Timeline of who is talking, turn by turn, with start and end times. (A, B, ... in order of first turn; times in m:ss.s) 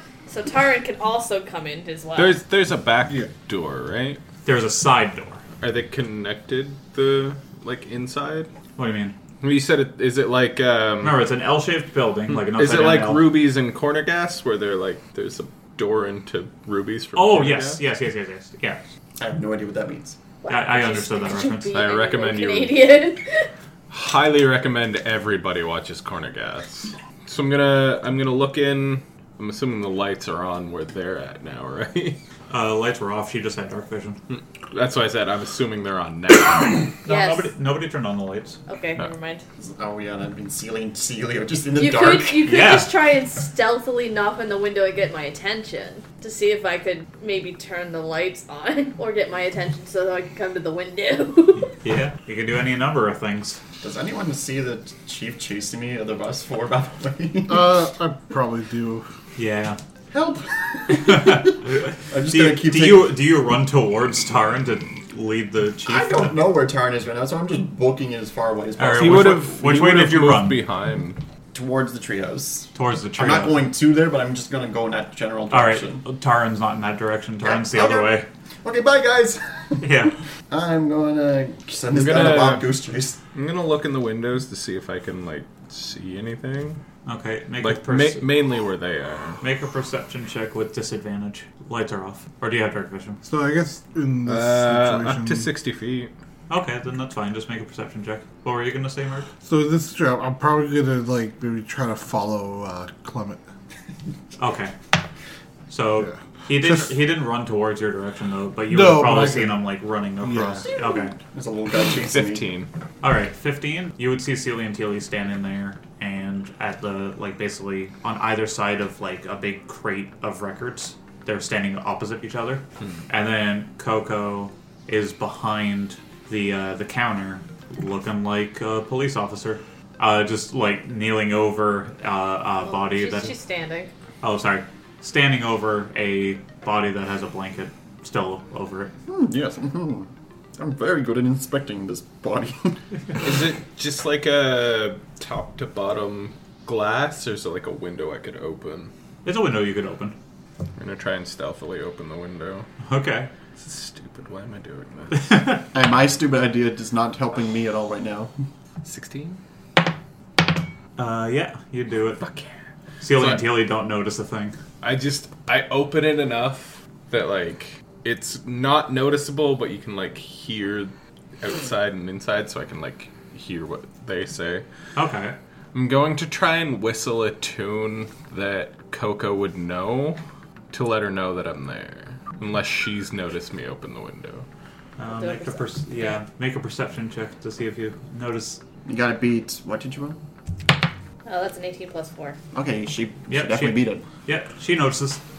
0:00.3-0:02.4 A
0:02.2-0:04.2 B
0:04.4-0:05.4 C
0:05.6-0:08.5 B
0:08.8-0:09.2 C
0:09.4-0:11.2 B
0:11.0-0:13.3 C
0:12.3-0:17.8 B
0:17.1-0:18.8 C
0:19.2-0:20.2 D
0:20.4-0:23.5 A
0:20.5-0:21.8 C
0:21.7-0:22.9 B
0:23.9-0:32.2 B
0:32.5-0:34.2 C
0:34.3-0:36.9 B
0:37.0-0:37.5 A
0:37.0-0:38.6 C
0:38.7-0:39.4 A
0:39.6-0:42.7 D
0:41.8-0:51.7 A
0:42.4-0:42.9 C
0:51.7-0:53.6 C
0:53.8-0:57.8 D
0:57.5-0:59.0 E
0:59.4-0:59.8 C
1:00.1-1:03.2 D
1:00.9-1:06.4 C
1:05.8-1:09.4 D
1:08.8-1:10.6 C
1:09.0-1:11.2 B
1:11.5-1:16.0 D
1:12.7-1:13.6 C
1:15.5-1:18.3 C
1:17.4-1:19.9 D
1:19.8-1:20.1 C
1:20.5-1:23.2 D
1:21.9-1:22.7 B
1:23.3-1:26.8 B
1:27.0-1:28.3 C
1:27.6-1:29.4 B
1:29.4-1:33.2 C
1:33.2-1:35.5 E
1:34.2-1:36.1 B
1:36.5-1:39.3 C
1:39.4-1:43.4 E
1:44.4-1:44.7 C
1:45.7-1:51.2 C
1:46.0-1:47.0 E
1:48.7-1:49.6 E
1:50.2-1:50.7 E
1:51.2-1:52.5 D
1:51.8-1:52.7 B
1:53.0-2:13.4 C
2:12.6-2:13.9 A
2:14.2-2:18.9 C
2:19.1-2:22.8 D
2:23.2-2:28.9 B
2:29.2-2:30.2 C
2:30.8-2:32.7 B
2:32.8-2:33.3 C
2:33.6-2:35.4 B
2:35.1-2:35.7 C
2:35.7-2:38.3 D
2:38.8-2:39.4 B
2:41.0-2:42.2 C
2:42.2-2:42.5 B
2:43.0-2:44.6 C
2:43.1-2:43.5 B
2:44.8-2:54.6 B
2:55.0-2:55.4 C
2:55.7-3:00.2 B
3:00.7-3:04.5 B
3:05.0-3:08.6 C
3:05.0-3:06.2 A
3:08.8-3:10.2 D
3:11.2-3:12.4 A
3:12.5-3:14.0 D
3:13.3-3:15.2 C